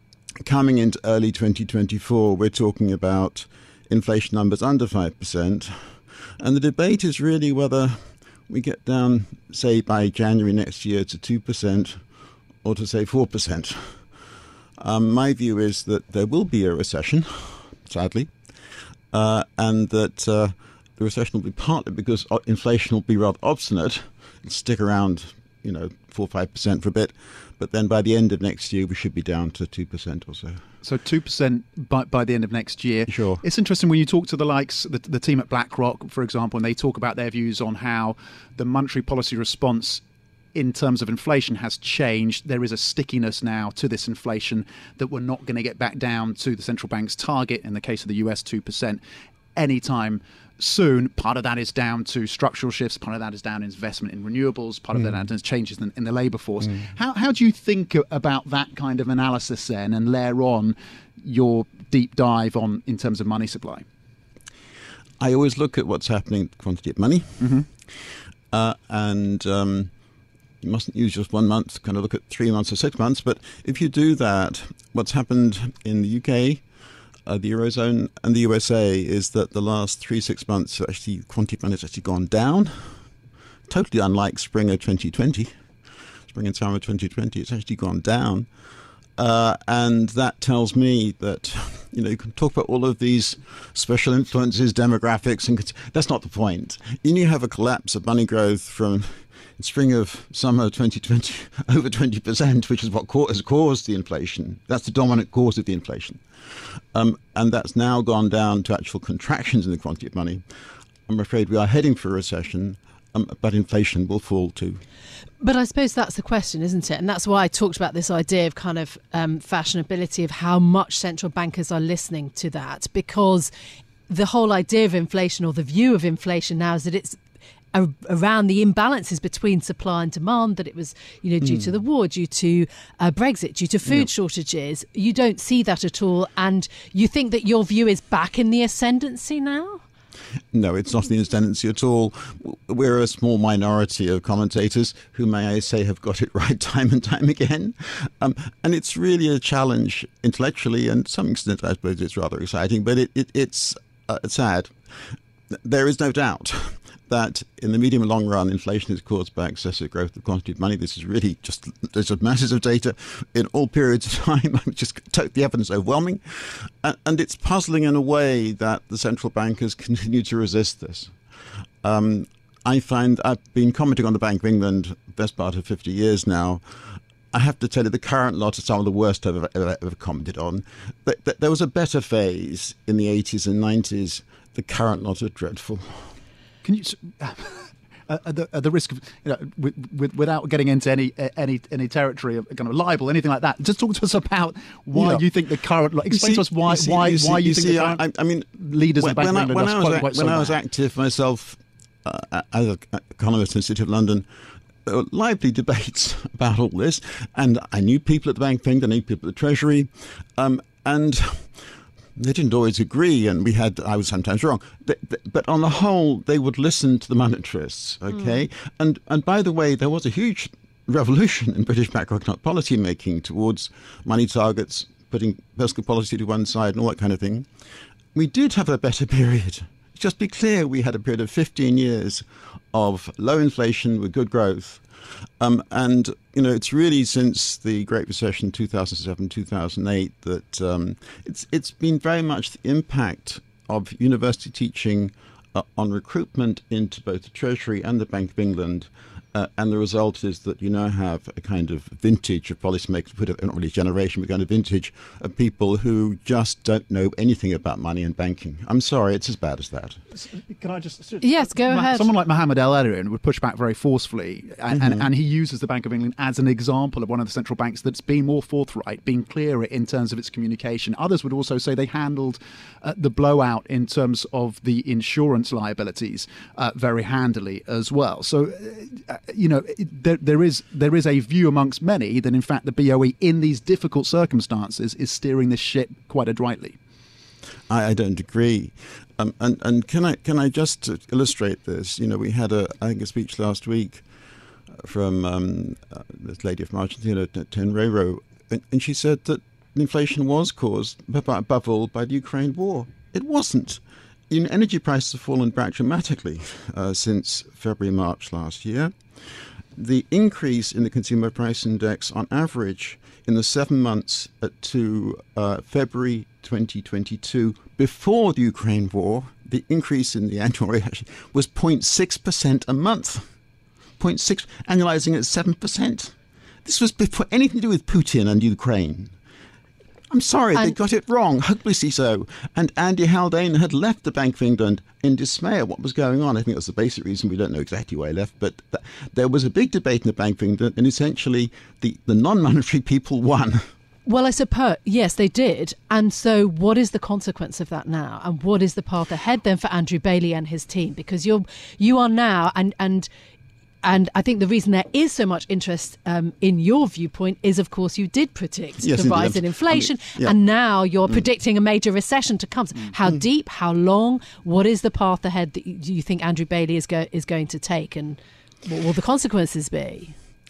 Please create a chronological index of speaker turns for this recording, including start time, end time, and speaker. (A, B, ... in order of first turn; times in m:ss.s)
0:00.4-0:12.0 A
0:12.6-0:14.0 A
0:14.8-0:18.3 A
0:19.1-0:30.6 A
0:30.8-0:40.0 B
0:33.1-0:33.4 A
0:40.5-0:49.0 B
0:49.5-1:03.8 B
1:05.2-1:08.0 A
1:07.4-1:07.6 B
1:08.5-1:09.9 A
1:10.6-1:16.6 A
1:17.2-1:23.0 A
1:23.7-1:25.5 A
1:26.3-1:28.5 A
1:29.2-1:46.2 A
1:46.9-1:50.4 A
1:51.1-1:54.8 A
1:55.4-2:03.5 C
2:04.1-2:07.2 C
2:07.7-2:19.8 C
2:11.4-2:11.7 A
2:20.5-2:34.7 A
2:35.5-2:51.2 A
2:51.8-2:56.6 A
2:57.3-3:06.1 A
3:06.6-3:18.0 B
3:14.9-3:15.2 A
3:16.1-3:24.2 A
3:18.6-3:20.6 B
3:24.8-3:47.5 A
3:48.1-3:54.8 A
3:55.4-4:20.0 A
4:20.1-4:46.8 B
4:21.2-4:22.1 C
4:24.7-4:25.1 A
4:47.7-4:54.0 A
4:54.7-5:08.9 A
5:09.8-5:23.3 A
5:24.0-5:29.1 A
5:30.1-5:43.7 A
5:44.0-5:53.1 C
5:53.8-6:10.1 C
5:58.8-6:00.4 A